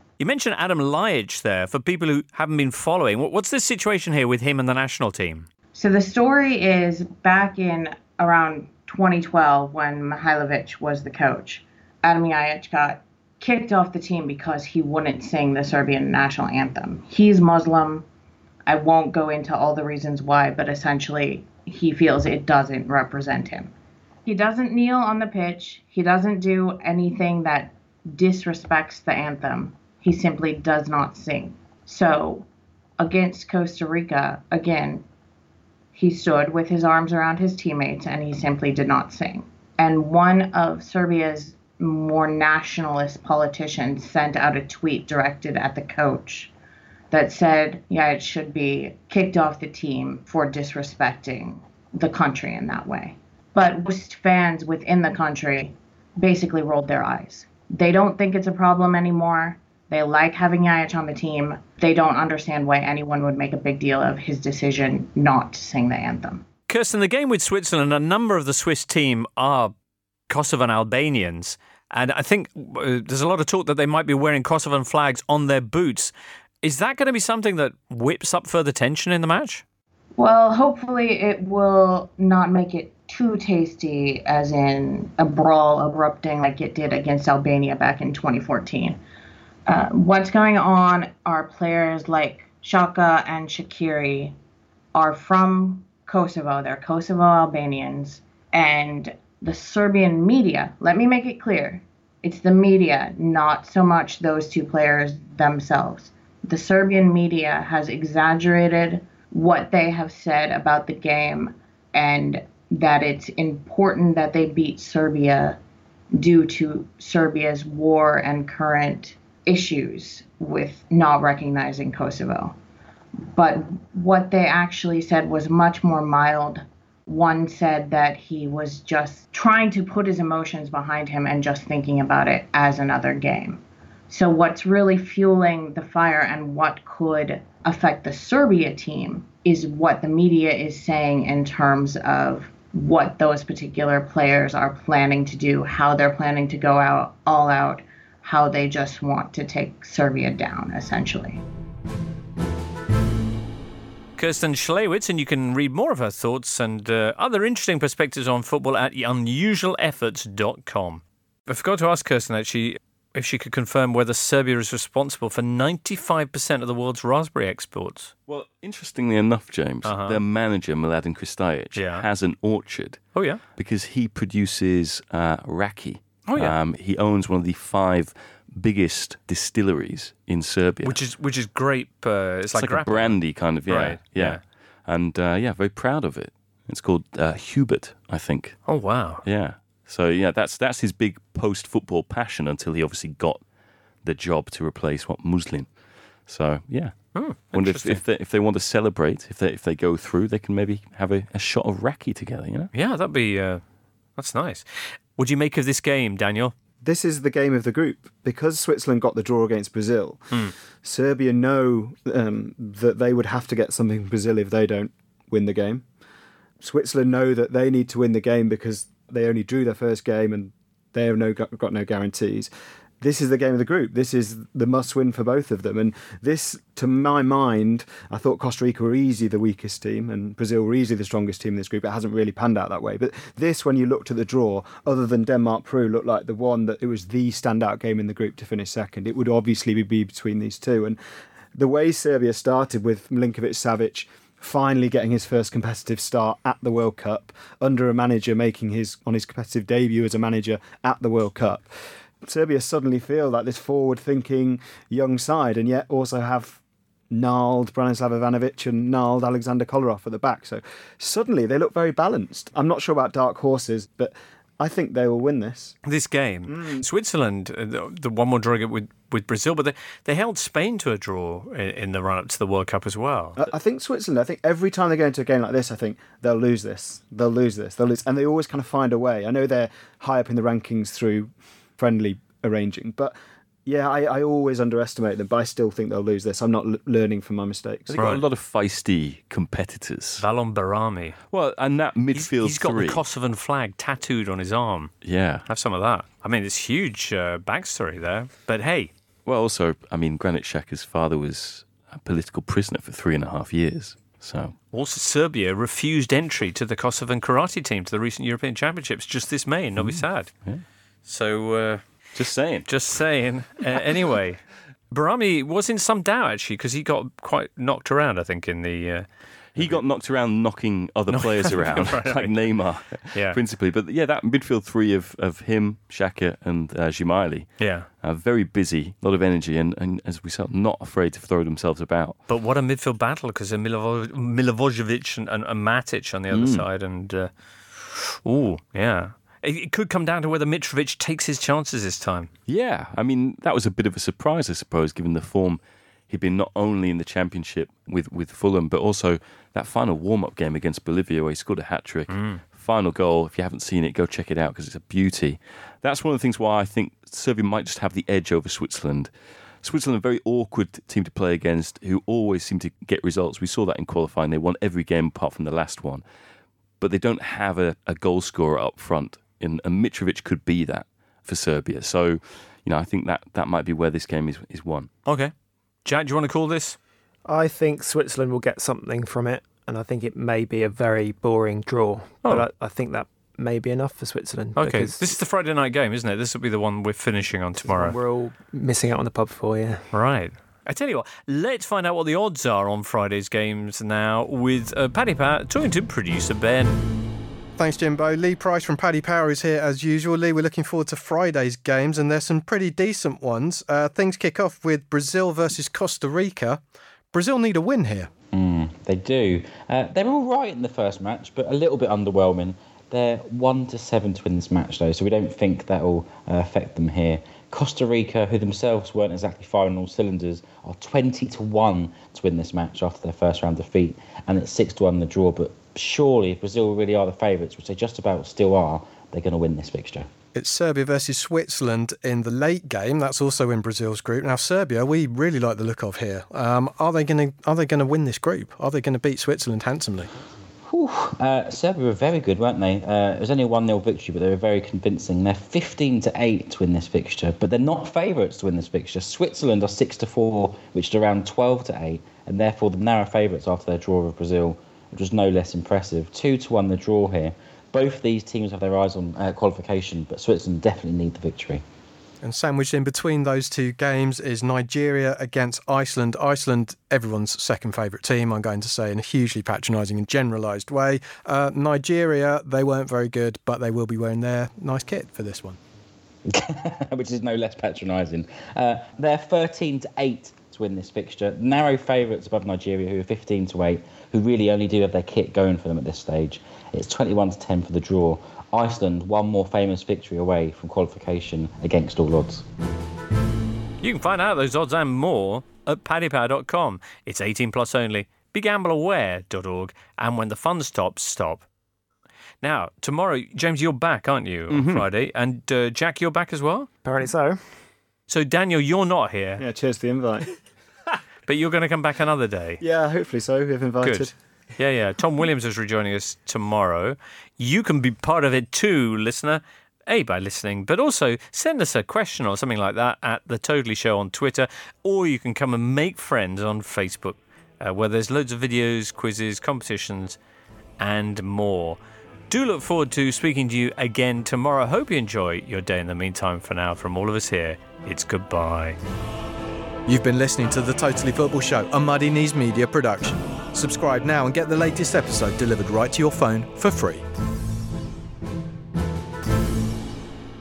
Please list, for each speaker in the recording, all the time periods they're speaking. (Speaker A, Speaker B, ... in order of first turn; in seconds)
Speaker A: 0.2-5.5, 66.7-69.7, 70.3-76.1, 76.6-79.6, 154.2-168.1, 169.8-170.2, 171.8-172.1, 173.1-173.4, 176.3-176.6, 180.8-184.4, 188.7-189.2, 197.1-198.0, 202.7-203.6, 204.2-206.5, 265.9-273.4, 288.0-288.2, 290.2-291.2, 292.1-294.9, 295.5-298.9, 304.7-310.3, 311.1-311.9, 312.6-319.9, 321.1-323.4, 327.6-327.9, 332.3-342.3, 352.1-352.4, 375.1-375.3, 375.9-376.8, 384.6-388.0, 389.9-396.8, 493.8-501.4, 502.4-506.7, 508.1-509.4, 511.3-512.6, 513.8-530.2, 530.8-531.8, 532.3-538.8
Speaker B: 5.7-18.1, 18.7-23.7, 24.3-32.5, 33.0-35.0, 35.9-46.5, 47.1-66.5, 80.2-89.0, 89.7-94.3, 95.0-115.6, 116.2-122.5, 123.3-151.4
Speaker C: 168.3-181.0, 182.5-193.4, 194.0-195.7, 196.3-202.7, 287.9-290.2, 291.3-293.0, 295.0-295.5, 299.3-304.6, 309.8-310.6, 312.1-312.7, 319.6-332.2, 336.3-336.6, 342.5-359.1, 359.6-366.0, 366.8-374.9, 504.5-504.9
Speaker D: 206.8-215.8, 216.6-222.5, 223.0-241.0, 241.5-251.7, 252.2-265.8, 266.5-266.9, 273.4-283.1, 283.7-287.9, 509.4-510.3, 512.6-514.1
Speaker E: 377.3-385.1, 387.7-389.9, 506.8-507.4
Speaker F: 397.6-406.6, 407.1-408.1, 430.3-440.1, 462.2-475.6, 539.9-547.0
Speaker G: 408.3-430.1, 440.7-461.6, 476.3-492.4